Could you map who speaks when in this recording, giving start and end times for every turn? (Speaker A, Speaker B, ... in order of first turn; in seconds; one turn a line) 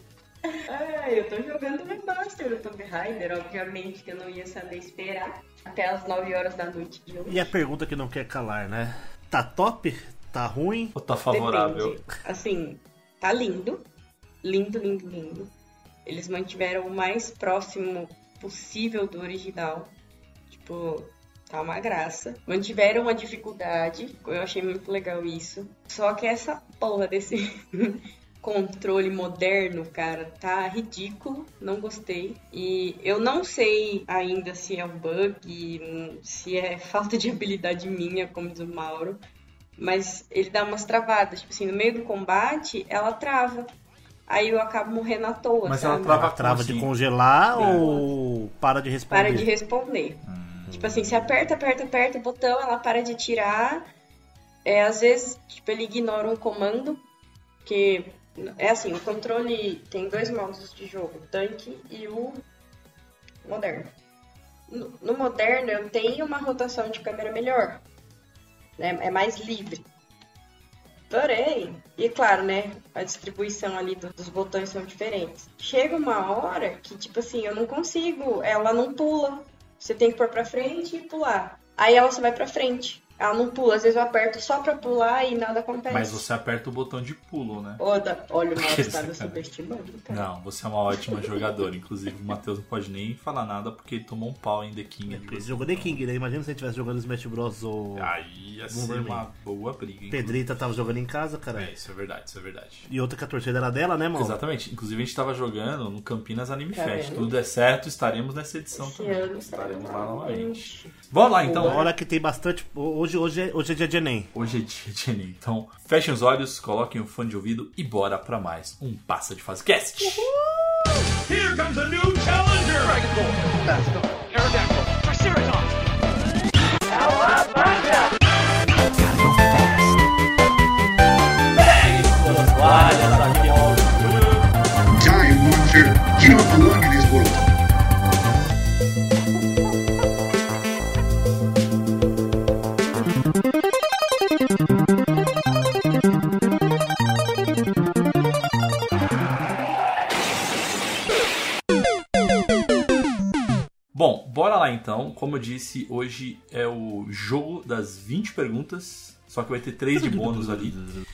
Speaker A: 0.5-7.5
Speaker B: 7.3-10.9
Speaker C: 10.9-12.0
Speaker A: 11.3-13.9
Speaker A: 14.4-15.5
Speaker A: 16.1-19.9
Speaker A: 20.5-39.2
Speaker A: 39.8-43.7
Speaker A: 44.3-46.2
Speaker C: 45.6-46.9
Speaker B: 46.0-49.5
Speaker C: 47.5-47.9
Speaker A: 47.5-48.1
Speaker A: 49.1-53.9
Speaker C: 50.3-51.3
Speaker A: 54.6-57.0
Speaker A: 57.6-62.4
Speaker A: 63.5-63.9
Speaker A: 64.7-67.8
Speaker A: 68.8-69.8
Speaker A: 71.1-86.2
Speaker C: 85.9-87.8
Speaker A: 87.8-90.3
Speaker C: 88.6-89.5
Speaker C: 90.1-96.0
Speaker B: 95.1-98.1
Speaker C: 98.0-100.4
Speaker B: 98.7-99.3
Speaker B: 100.1-101.7
Speaker C: 101.5-102.9
Speaker B: 102.9-104.4
Speaker C: 104.2-111.8
Speaker A: 106.7-107.3
Speaker A: 108.7-111.9
Speaker B: 111.5-114.3
Speaker C: 114.3-120.3
Speaker C: 121.3-123.0
Speaker D: 122.7-125.8
Speaker D: 127.3-127.7
Speaker C: 131.5-134.5
Speaker E: 134.9-137.5
Speaker C: 153.9-160.8
Speaker B: 160.0-161.0